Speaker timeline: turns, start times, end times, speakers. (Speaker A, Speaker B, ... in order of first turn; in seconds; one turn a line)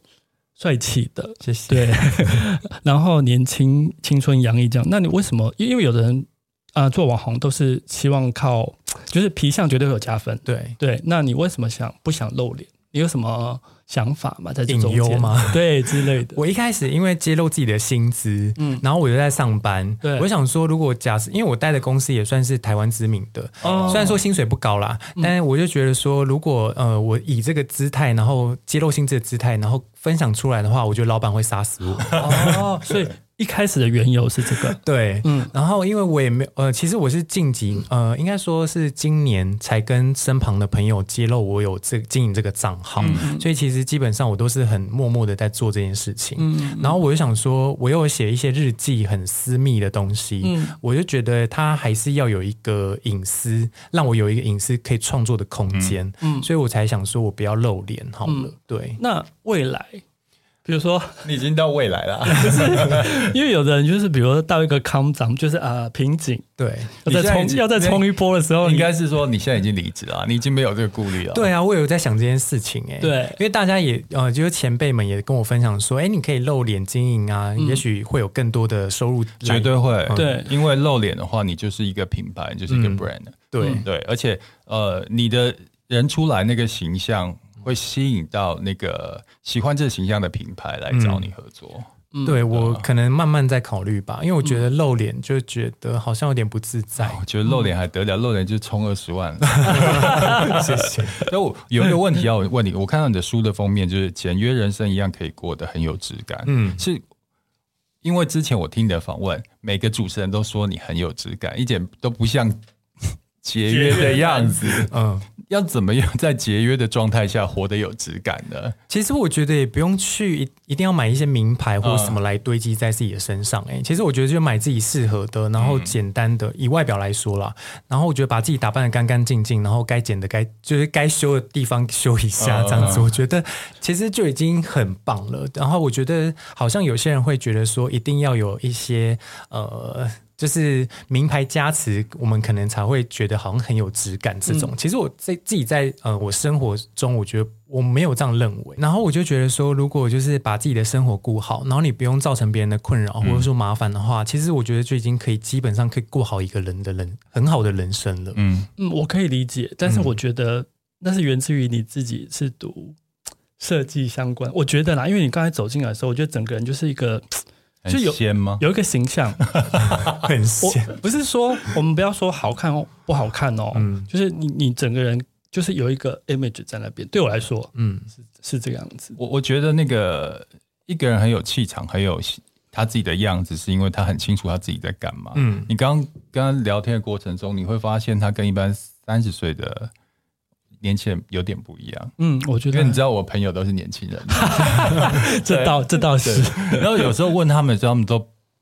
Speaker A: 0.6-16.4
Speaker B: 1.4-2.4
Speaker B: 10.5-10.8
Speaker B: 14.7-32.6
Speaker A: 18.6-18.8
Speaker A: 20.0-20.3
Speaker C: 23.6-24.1
Speaker A: 23.6-24.2
Speaker C: 32.1-32.6
Speaker A: 32.1-35.5
Speaker B: 34.7-59.0
Speaker A: 43.0-43.5
Speaker A: 46.4-47.0
Speaker A: 50.4-50.8
Speaker A: 56.2-56.5
Speaker A: 58.2-60.0
Speaker A: 60.6-61.3
Speaker C: 61.2-63.3
Speaker A: 62.3-66.5
Speaker B: 66.6-66.9
Speaker A: 67.0-68.9
Speaker C: 67.1-68.1
Speaker C: 68.6-71.5
Speaker B: 71.3-80.3
Speaker A: 73.0-73.4
Speaker A: 77.6-77.8
Speaker C: 79.4-91.9
Speaker A: 80.1-80.5
Speaker B: 82.7-83.9
Speaker A: 83.6-83.8
Speaker B: 90.9-91.3
Speaker A: 92.1-92.4
Speaker B: 92.2-97.2
Speaker C: 92.5-92.8
Speaker C: 97.0-107.0
Speaker B: 99.6-101.3
Speaker B: 106.5-106.8
Speaker C: 108.0-114.9
Speaker A: 113.7-114.8
Speaker B: 114.9-115.3
Speaker C: 115.5-118.8
Speaker B: 118.9-158.4
Speaker C: 121.8-122.2
Speaker C: 125.6-125.9
Speaker C: 132.4-133.1
Speaker C: 153.2-153.5
Speaker C: 158.3-158.7
Speaker A: 158.8-163.0
Speaker A: 163.6-169.5
Speaker C: 167.8-168.6
Speaker C: 169.5-170.2
Speaker B: 170.1-171.0
Speaker A: 170.6-177.7
Speaker B: 173.7-174.1
Speaker B: 177.8-178.1
Speaker A: 178.3-179.2
Speaker C: 179.2-189.9
Speaker B: 185.3-185.7
Speaker C: 190.8-192.2
Speaker A: 192.2-193.0
Speaker C: 192.7-198.3
Speaker A: 194.3-197.2